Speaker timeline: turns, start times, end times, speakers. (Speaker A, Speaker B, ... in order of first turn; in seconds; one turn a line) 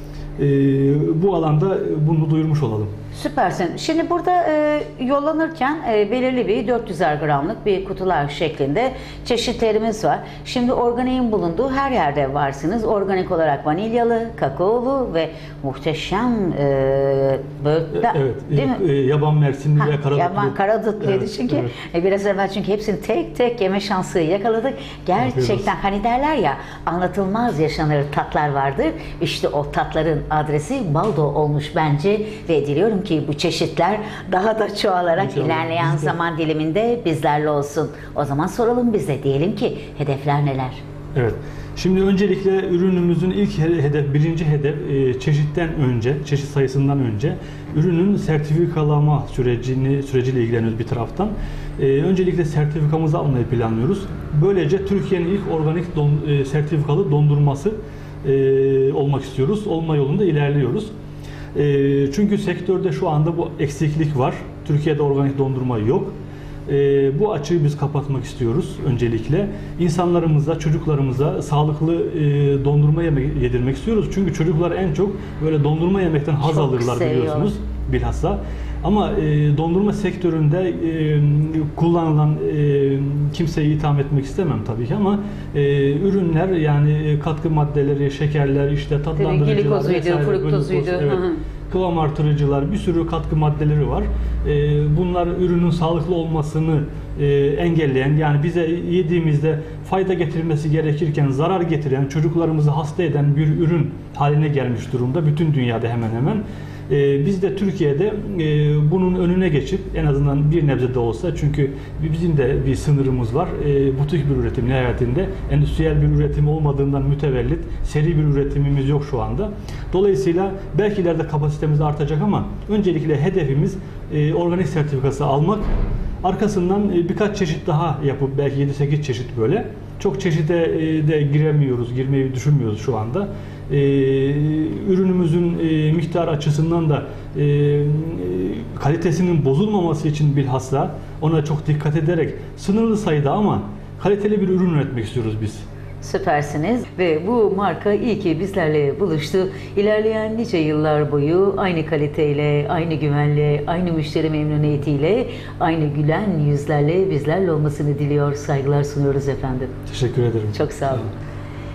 Speaker A: 0.4-2.9
Speaker B: 3.1-18.8
Speaker A: 17.9-21.8
Speaker B: 19.8-40.8
Speaker A: 25.2-25.7
Speaker A: 35.1-36.2
Speaker A: 41.1-60.9
Speaker A: 61.5-66.1
Speaker A: 66.7-125.7
Speaker B: 76.4-77.5
Speaker B: 89.2-91.4
Speaker A: 126.2-145.6
Speaker B: 146.0-159.7
Speaker A: 159.9-161.1
Speaker B: 160.5-161.1